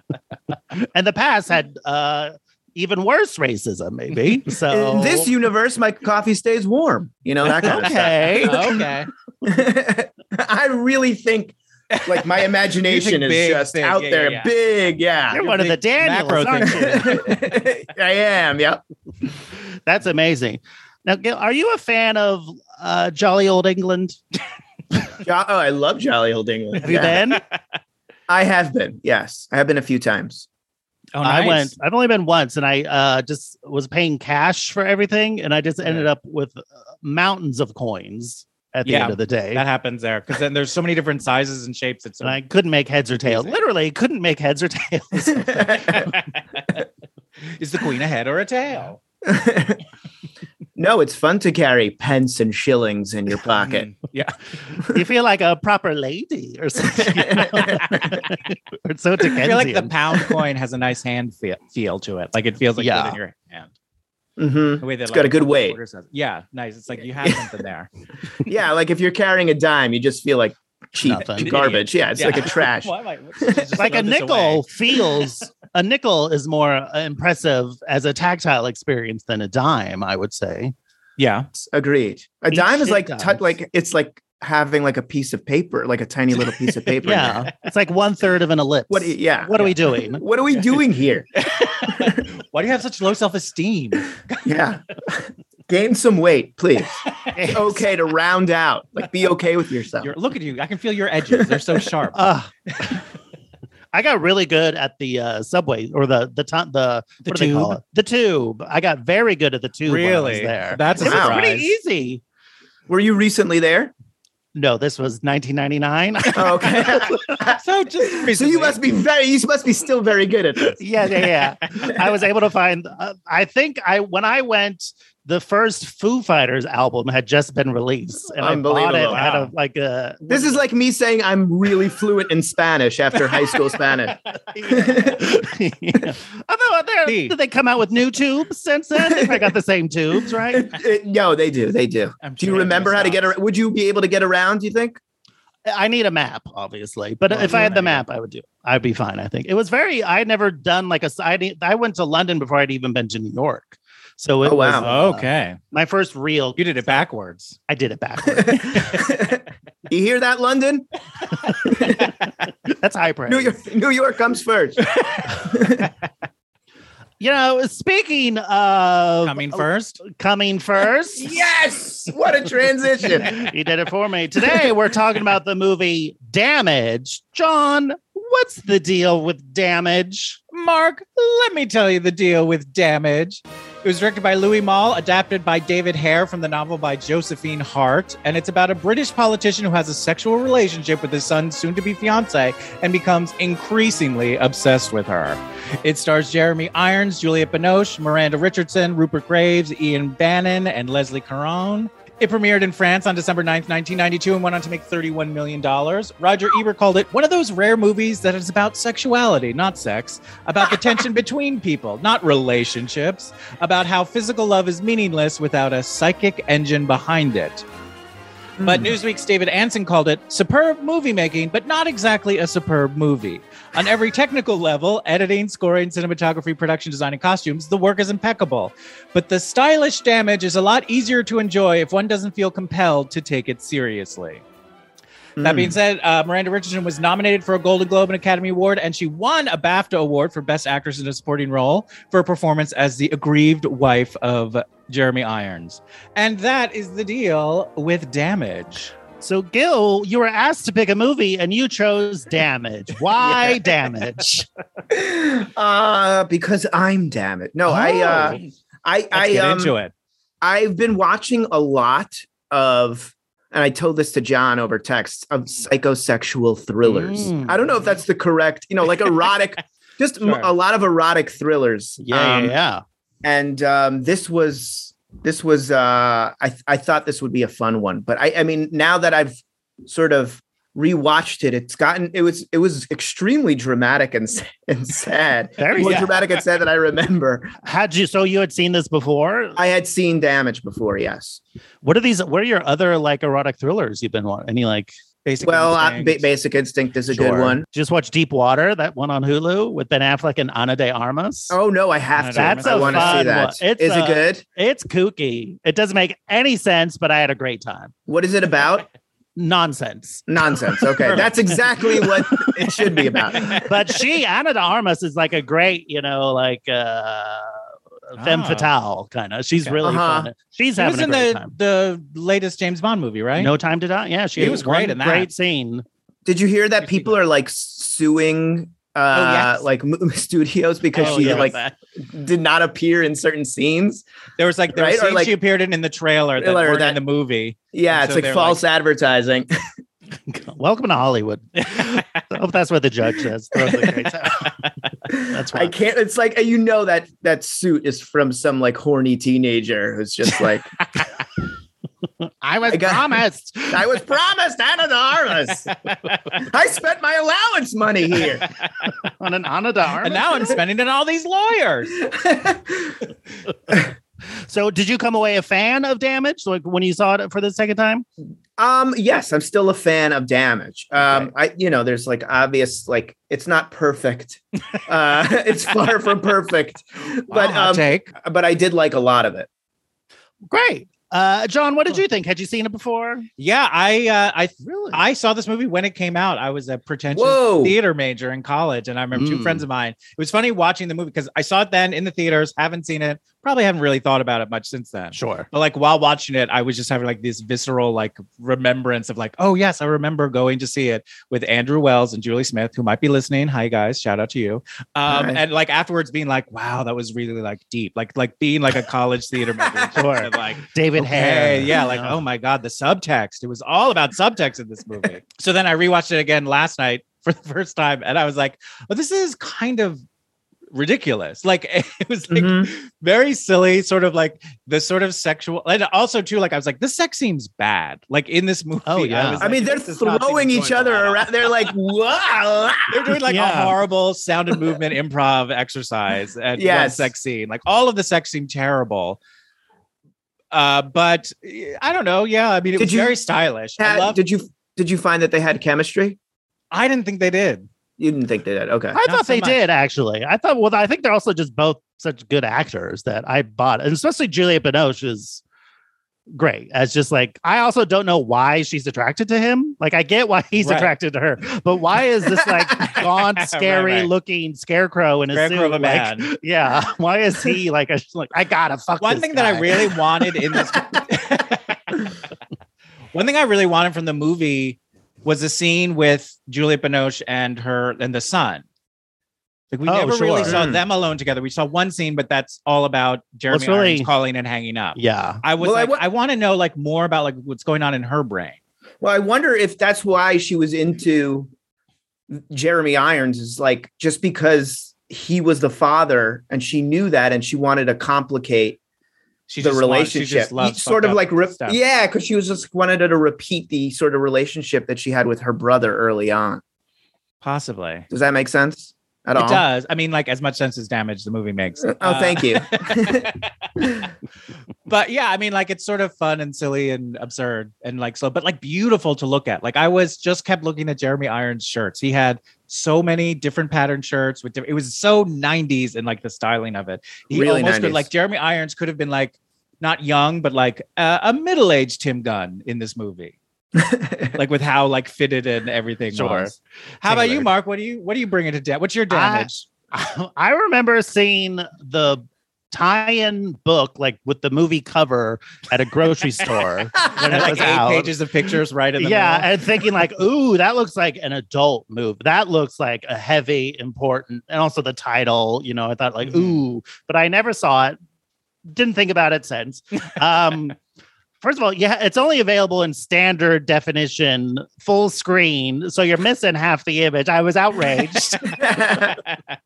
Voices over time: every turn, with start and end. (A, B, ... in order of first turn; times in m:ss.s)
0:00.9-0:05.3 A
0:04.7-0:08.9 B
0:07.5-0:09.1 C
0:07.6-0:08.8 A
0:09.4-0:15.5 B
0:11.9-0:14.5 C
0:15.3-0:17.2 A
0:15.4-0:17.2 C
0:16.6-0:18.8 B
0:19.9-0:24.2 A
0:25.2-0:27.2 B
0:26.8-0:27.4 A
0:28.3-0:30.5 B
0:31.2-0:31.7 C
0:31.2-0:39.6 A
0:38.9-0:42.4 C
0:42.2-0:45.9 A
0:43.2-0:43.6 C
0:45.4-0:46.1 B
0:45.9-0:46.6 C
0:47.6-0:49.0 C
0:49.2-0:49.8 B
0:50.8-0:53.9 B
0:53.5-0:54.4 C
0:54.9-0:59.9 A
0:57.2-0:58.2 B
0:59.4-1:03.7 C
1:02.8-1:03.2 A
1:04.4-1:05.8 B
1:04.8-1:07.9 C
1:08.4-1:13.7 B
1:11.0-1:11.7 A
1:11.4-1:14.7 C
1:13.8-1:20.7 A
1:21.2-1:21.5 C
1:21.6-1:27.5 B
1:22.5-1:23.5 A
1:26.4-1:26.9 C
1:27.0-1:30.2 A
1:28.9-1:31.3 B
1:30.5-1:30.8 C
1:31.4-1:34.6 C
1:34.4-1:37.0 B
1:37.3-1:37.9 A
1:37.5-1:40.1 B
1:40.0-1:42.2 C
1:42.1-1:43.0 A
1:43.9-1:52.2 A
1:47.2-1:47.8 C
1:49.9-1:51.7 C
1:51.0-1:51.4 B
1:52.9-1:53.9 B
1:54.6-1:57.1 A
1:56.3-1:57.6 B
1:57.5-1:58.8 C
1:58.1-2:00.8 B
2:00.8-2:10.6 A
2:08.4-2:09.2 B
2:09.1-2:09.5 C
2:10.3-2:15.3 B
2:14.7-2:20.7 A
2:17.1-2:17.4 C
2:20.5-2:25.0 B
2:22.2-2:23.2 C
2:25.7-2:36.6 A
2:27.3-2:28.0 C
2:34.4-2:34.9 B
2:34.8-2:35.6 C
2:36.6-2:37.6 C
2:37.7-2:39.0 A
2:38.4-2:40.9 B
2:41.6-2:42.1 B
2:42.8-2:43.6 A
2:43.3-2:45.9 B
2:47.2-2:51.3 A
2:49.2-2:50.0 C
2:51.2-2:53.5 B
2:53.2-3:00.4 A
3:00.5-3:37.6 C
3:38.6-3:39.0 B
3:38.6-3:54.4 C
3:55.4-3:55.8 B
3:55.4-4:08.9 C
4:09.2-4:14.5 A
4:14.9-4:19.8 B
4:17.7-4:18.4 A
4:17.9-4:18.3 C
4:19.1-4:19.9 C
4:20.4-4:32.6 B
4:26.8-4:27.7 A
4:30.2-4:30.5 C
4:32.0-4:32.8 A
4:33.2-4:47.5 B
4:45.6-4:46.1 A
4:45.8-4:46.1 C
4:47.6-4:49.6 A
4:49.6-4:51.4 B
4:51.8-4:54.9 A
4:55.2-4:56.3 C
4:55.4-4:57.6 B
4:57.1-5:01.6 A
5:01.5-5:04.4 B
5:02.2-5:03.4 C
5:02.4-5:07.9 A
5:08.1-5:08.9 B
5:09.4-5:10.3 A
5:10.3-5:13.7 B
5:11.0-5:11.4 C
5:11.9-5:12.5 A
5:13.3-5:21.5 A
5:18.2-5:18.7 C
5:19.8-5:20.3 B
5:20.8-5:23.5 C
5:23.4-5:25.8 A
5:24.4-5:25.3 C
5:26.3-5:34.0 B
5:26.8-5:27.2 C
5:29.1-5:29.6 C
5:31.0-5:31.7 A
5:31.0-5:31.6 C
5:34.4-5:38.6 C
5:34.8-5:35.4 B
5:36.4-5:37.0 B
5:37.7-5:39.5 B
5:40.3-5:44.6 A
5:45.1-5:50.7 B
5:45.3-5:45.7 A
5:52.4-5:53.8 A
5:52.7-5:53.2 B
5:53.7-5:55.7 B
5:56.4-5:58.5 B
5:58.5-5:58.9 C
5:59.2-6:00.6 A
6:00.0-6:02.1 C
6:02.1-6:03.0 B
6:04.5-6:08.0 A
6:08.6-6:19.5 B
6:17.3-6:18.1 C
6:20.5-6:23.3 A
6:23.4-7:00.0 C
6:24.6-6:25.0 A
6:27.1-6:27.8 B
6:29.1-6:29.6 A
6:35.1-6:35.5 A
6:45.1-6:45.4 B
6:50.0-6:52.2 A
7:00.7-7:11.3 C
7:02.3-7:02.7 B
7:08.9-7:09.5 A
7:09.4-7:13.0 B
7:12.9-7:19.2 C
7:13.3-7:13.8 A
7:16.6-7:17.1 B
7:20.5-7:24.2 C
7:22.8-7:23.2 B
7:23.8-7:26.2 B
7:26.7-7:27.7 C
7:28.0-7:29.0 B
7:28.9-7:35.4 A
7:29.0-7:29.6 C
7:36.3-7:50.0 A
7:40.6-7:40.9 C
7:42.8-7:44.1 C
7:45.3-7:46.3 C
7:49.0-7:52.0 C
7:53.1-7:58.6 C
7:59.7-8:08.6 C
7:59.9-8:00.6 A
8:00.4-8:00.8 B
8:03.5-8:04.1 A
8:05.0-8:05.4 A
8:05.6-8:06.0 B
8:09.0-8:11.5 B
8:12.3-8:18.8 B
8:19.5-8:21.8 C
8:19.6-8:26.6 B
8:27.4-8:28.1 C
8:28.1-8:29.6 B
8:29.4-8:33.5 C
8:31.9-8:34.1 B
8:34.9-8:53.4 C
8:47.3-8:48.1 B
8:53.8-8:54.4 B
8:54.4-8:59.6 C
8:56.1-8:57.5 A
8:59.1-9:08.2 A
9:07.3-9:09.5 C
9:09.0-9:18.0 A
9:16.3-9:16.6 C
9:18.7-9:20.8 A
9:21.4-9:28.4 A
9:28.6-9:29.2 B